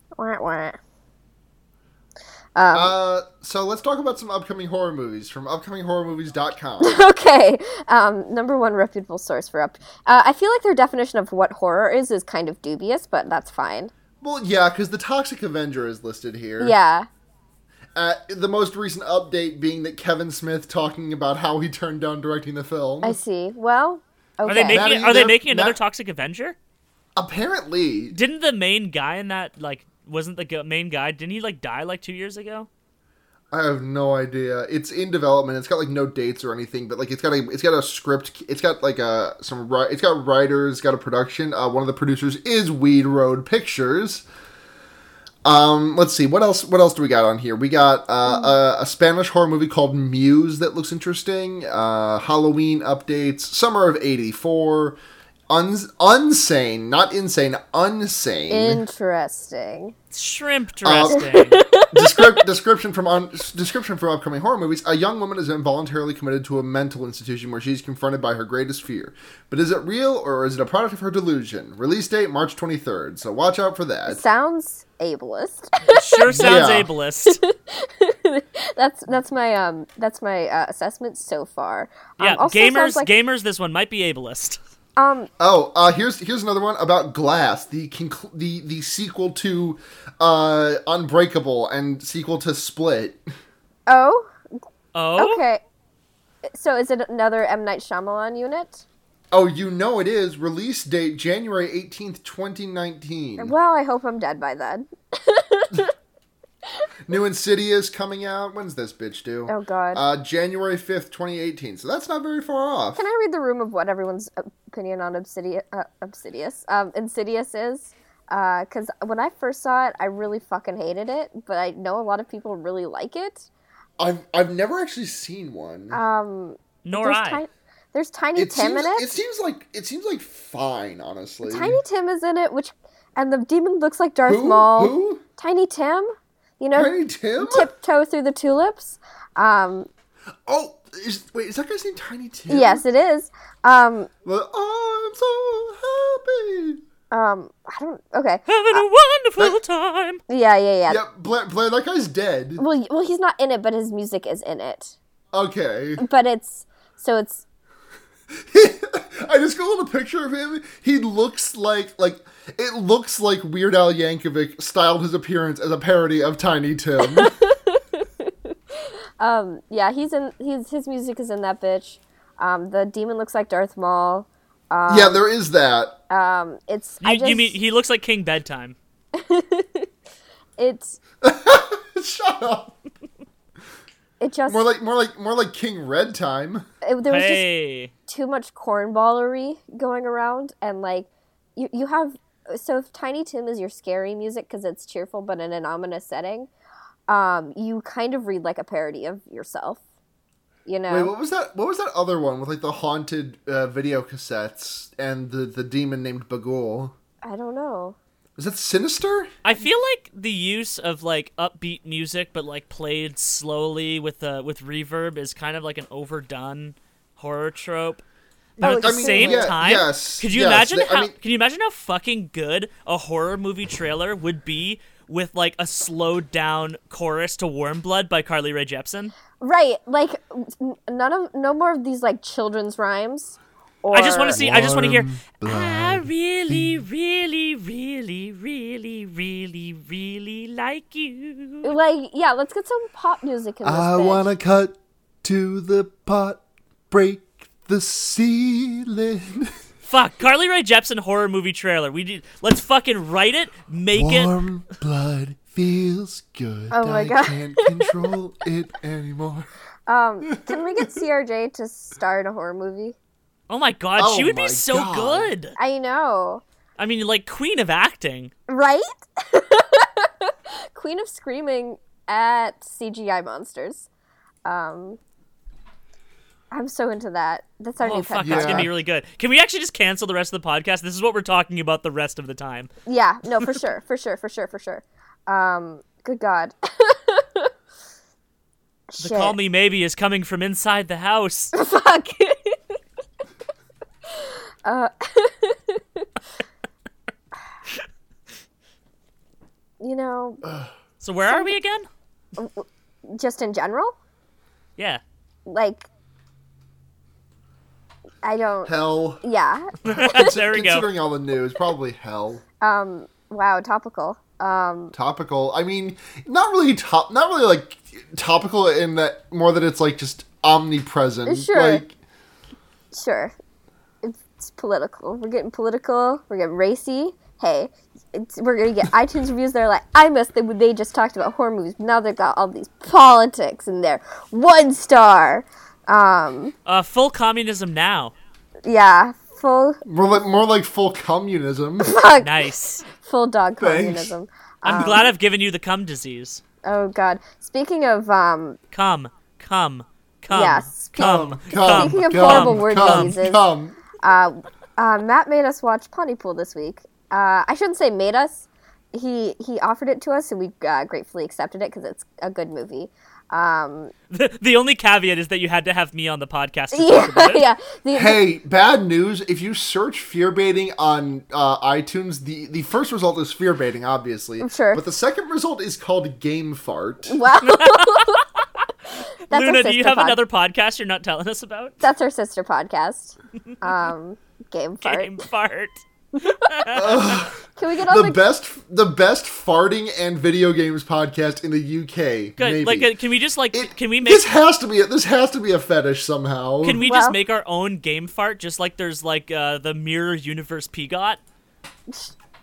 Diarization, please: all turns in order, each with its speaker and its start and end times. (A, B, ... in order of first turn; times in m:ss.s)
0:00.2-0:00.8 A
0:02.6-0:03.0 A
0:02.7-0:07.0 B
0:06.8-0:13.9 A
0:14.2-0:16.8 B
0:16.6-0:17.1 A
0:18.0-0:23.2 B
0:23.0-0:24.9 A
0:24.5-0:26.6 C
0:24.7-0:25.8 B
0:27.2-0:28.2 B
0:28.1-0:32.7 C
0:33.5-0:44.2 B
0:45.4-0:55.0 B
0:48.3-0:48.5 A
0:55.5-0:58.8 B
0:58.5-0:59.9 A
1:00.1-1:01.6 C
1:00.8-1:01.2 B
1:01.1-1:02.4 A
1:01.9-1:14.2 B
1:14.1-1:16.6 A
1:15.9-1:17.4 C
1:16.3-1:16.9 B
1:17.2-1:23.1 A
1:22.2-1:24.6 C
1:25.0-1:25.3 A
1:25.4-1:33.2 B
1:33.9-1:34.3 A
1:34.9-1:35.4 C
1:35.2-1:35.6 A
1:36.5-1:38.8 A
1:39.3-1:43.5 B
1:43.4-1:45.9 A
1:47.1-1:53.1 B
1:49.5-1:50.0 A
1:53.0-2:03.5 A
2:04.0-2:06.0 B
2:05.9-2:09.1 A
2:06.8-2:07.4 C
2:08.4-2:11.8 B
2:11.4-2:19.9 A
2:14.3-2:15.2 B
2:16.7-2:17.7 B
2:20.5-2:22.8 B
2:22.5-2:24.1 A
2:24.3-2:26.8 B
2:27.1-2:28.8 A
2:28.5-2:30.2 C
2:30.3-2:31.0 A
2:30.9-2:32.6 B
2:32.6-2:35.0 A
2:35.3-2:36.0 B
2:36.0-2:37.4 A
2:38.3-2:47.3 B
2:47.0-2:55.2 A
2:54.9-2:56.0 B
2:56.1-2:57.6 A
2:57.0-2:58.8 C
2:59.2-2:59.9 A
3:00.6-3:01.0 A
3:01.2-3:02.8 B
3:04.2-3:04.7 A
3:04.5-3:06.6 B
3:06.8-3:07.4 A
3:07.0-3:07.9 C
3:08.1-3:16.5 A
3:17.1-3:19.8 A
3:20.7-3:21.1 A
3:20.9-3:26.9 B
3:27.2-3:28.0 A
3:28.4-3:29.3 B
3:29.4-3:38.0 C
3:38.6-3:41.2 B
3:38.6-3:49.1 C
3:38.6-3:39.6 A
3:49.4-3:54.4 A
3:53.9-4:01.7 C
3:54.3-3:56.9 B
4:01.6-4:04.3 A
4:03.6-4:09.6 B
4:09.9-4:14.3 C
4:13.9-4:19.5 B
4:16.7-4:17.9 A
4:19.9-4:23.0 A
4:20.2-4:20.9 B
4:23.5-4:25.6 C
4:24.0-4:25.3 B
4:25.6-4:26.4 A
4:26.8-4:28.3 C
4:28.5-4:33.9 A
4:34.4-4:35.0 A
4:36.5-4:38.7 A
4:37.8-4:42.7 C
4:38.2-4:38.7 B
4:42.9-4:47.5 A
4:43.4-4:43.6 C
4:48.9-4:49.4 A
4:49.0-4:51.5 C
4:51.5-4:52.6 A
4:54.2-4:56.1 A
4:59.8-5:00.4 A
5:00.4-5:00.7 B
5:01.0-5:01.9 C
5:02.4-5:03.9 A
5:05.5-5:05.9 A
5:08.2-5:10.4 A
5:08.7-5:09.2 B
5:09.8-5:10.9 C
5:09.9-5:12.4 B
5:12.6-5:14.9 A
5:14.9-5:22.0 B
5:21.3-5:21.8 A
5:22.9-5:23.3 A
5:24.0-5:36.5 A
5:36.7-5:38.1 C
5:38.7-5:39.8 A
5:39.8-5:42.0 B
5:41.8-5:45.1 A
5:42.2-5:42.8 C
5:43.6-5:44.1 B
5:44.6-5:46.4 C
5:46.6-5:48.6 A
5:48.7-5:53.2 C
5:50.3-5:53.4 A
5:51.0-5:53.8 B
5:54.0-6:03.9 A
6:04.1-6:07.4 C
6:06.7-6:08.2 A
6:07.9-6:17.2 B
6:14.4-6:14.8 A
6:17.1-6:18.2 A
6:17.4-6:18.2 C
6:19.0-6:20.2 A
6:19.3-6:21.8 C
6:21.8-6:25.2 A
6:24.8-6:27.2 C
6:26.2-6:28.2 A
6:26.7-6:32.9 B
6:32.4-6:34.3 C
6:33.5-6:36.8 B
6:36.6-6:41.2 C
6:36.8-6:37.2 A